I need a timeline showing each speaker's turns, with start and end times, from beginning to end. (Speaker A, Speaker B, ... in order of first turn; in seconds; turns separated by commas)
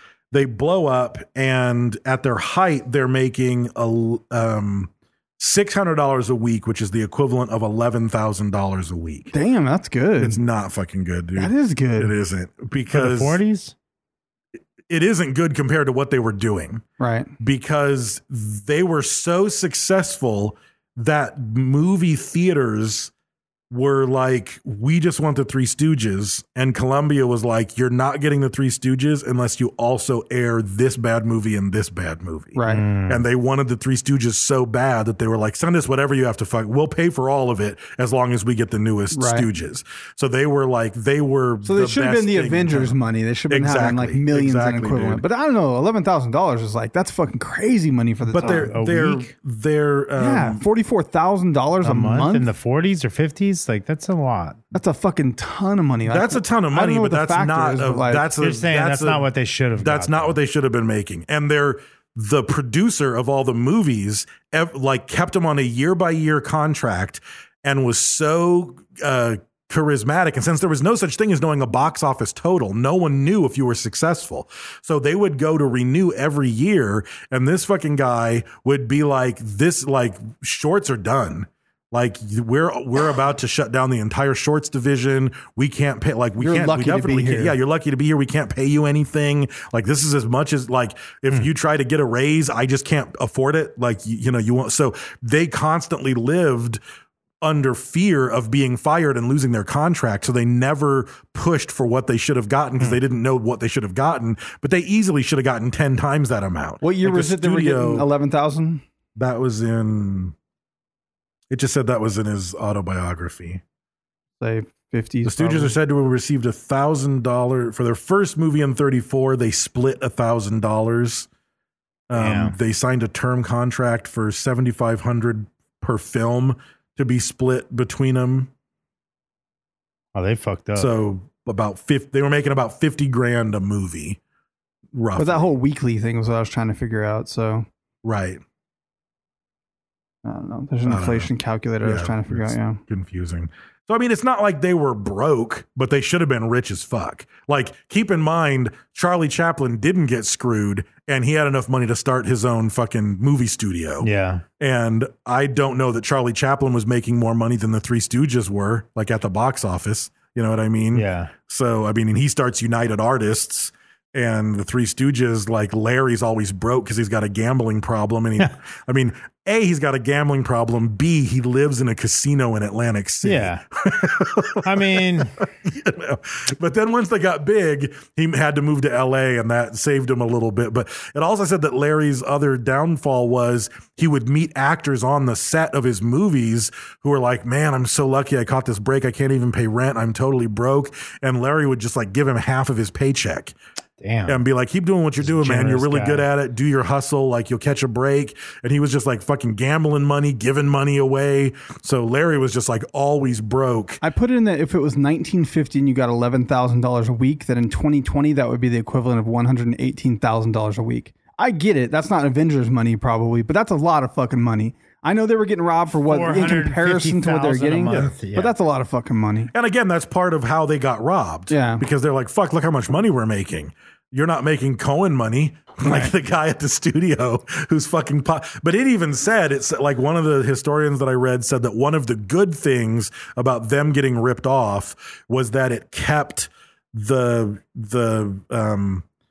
Speaker A: 0.3-9.3, Speaker B: 9.3-10.4, Speaker A: 10.2-13.4, Speaker B: 11.4-12.1, Speaker C: 12.9-13.7, Speaker A: 14.9-16.8, Speaker B: 17.0-17.3, Speaker A: 17.4-23.1, Speaker A: 23.7-43.0, Speaker B: 32.5-32.8, Speaker C: 32.7-33.2, Speaker B: 39.1-39.5, Speaker B: 41.6-48.7, Speaker A: 43.5-45.2, Speaker A: 48.3-50.6, Speaker C: 48.4-49.3, Speaker B: 50.2-52.5, Speaker C: 51.8-54.6, Speaker B: 54.7-58.3, Speaker A: 56.1-96.8, Speaker C: 58.4-60.4, Speaker B: 86.4-87.6, Speaker A: 97.4-108.1, Speaker B: 106.8-108.8, Speaker A: 109.2-110.3, Speaker A: 111.5-113.6, Speaker B: 114.4-115.8, Speaker A: 115.2-121.3, Speaker A: 122.1-128.5, Speaker C: 122.1-122.5, Speaker C: 130.2-130.9, Speaker A: 130.8-134.2, Speaker A: 134.9-135.5, Speaker B: 135.2-137.7, Speaker A: 138.0-138.4, Speaker B: 140.2-142.8, Speaker A: 140.9-141.3, Speaker A: 141.8-154.1, Speaker C: 154.0-154.4, Speaker A: 154.6-193.6, Speaker C: 160.9-161.3, Speaker C: 173.2-173.6, Speaker C: 174.6-175.4, Speaker C: 194.0-194.4, Speaker A: 194.3-204.0, Speaker C: 195.2-196.3, Speaker B: 204.0-219.5, Speaker C: 216.1-218.5, Speaker A: 217.9-218.1, Speaker A: 219.5-239.1, Speaker B: 221.5-221.8